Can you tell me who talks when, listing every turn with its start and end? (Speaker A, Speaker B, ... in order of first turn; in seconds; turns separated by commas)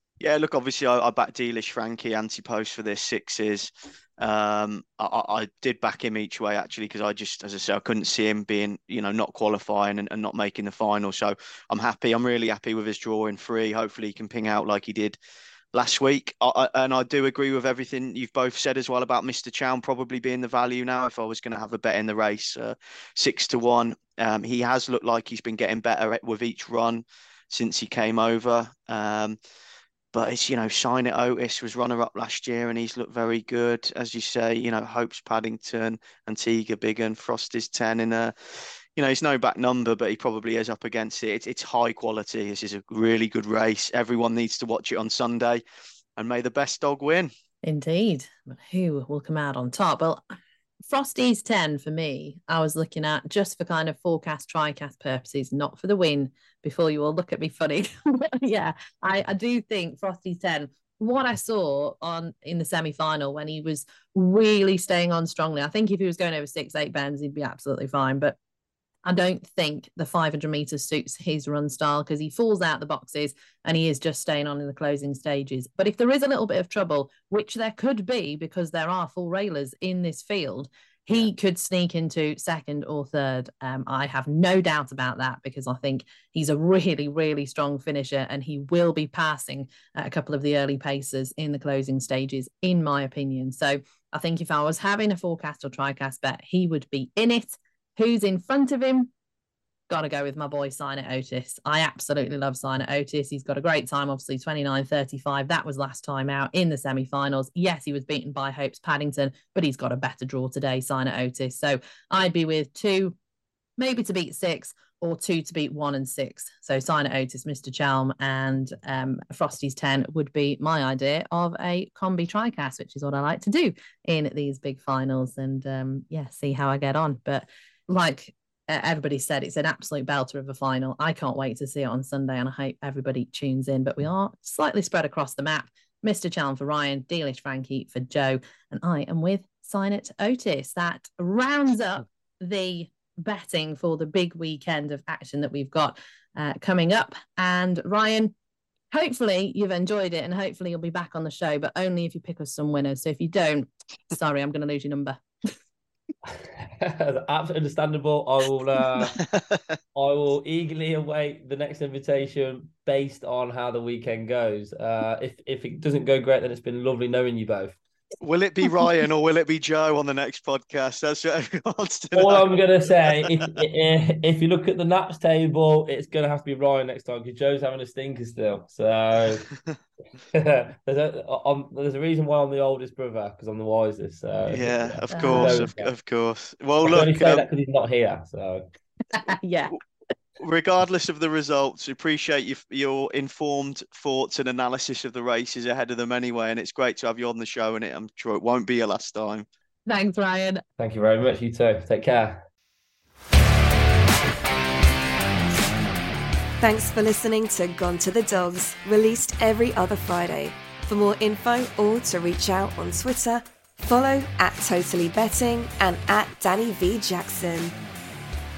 Speaker A: 0.2-15.2, Speaker A: 15.7-29.4, Speaker A: 30.1-45.6, Speaker A: 46.2-47.3, Speaker B: 47.6-50.2, Speaker B: 50.9-68.3, Speaker B: 69.0-99.1, Speaker B: 99.9-113.1, Speaker B: 113.8-148.3, Speaker B: 148.9-155.2, Speaker C: 156.3-159.2, Speaker A: 159.2-159.6, Speaker C: 159.9-167.8, Speaker A: 168.2-173.3, Speaker C: 172.1-179.4, Speaker C: 180.3-185.9, Speaker A: 184.5-187.4, Speaker B: 185.1-185.6, Speaker C: 186.8-188.6, Speaker B: 189.1-189.8, Speaker A: 190.4-199.4, Speaker B: 199.9-200.6, Speaker C: 200.8-202.4, Speaker D: 206.6-217.7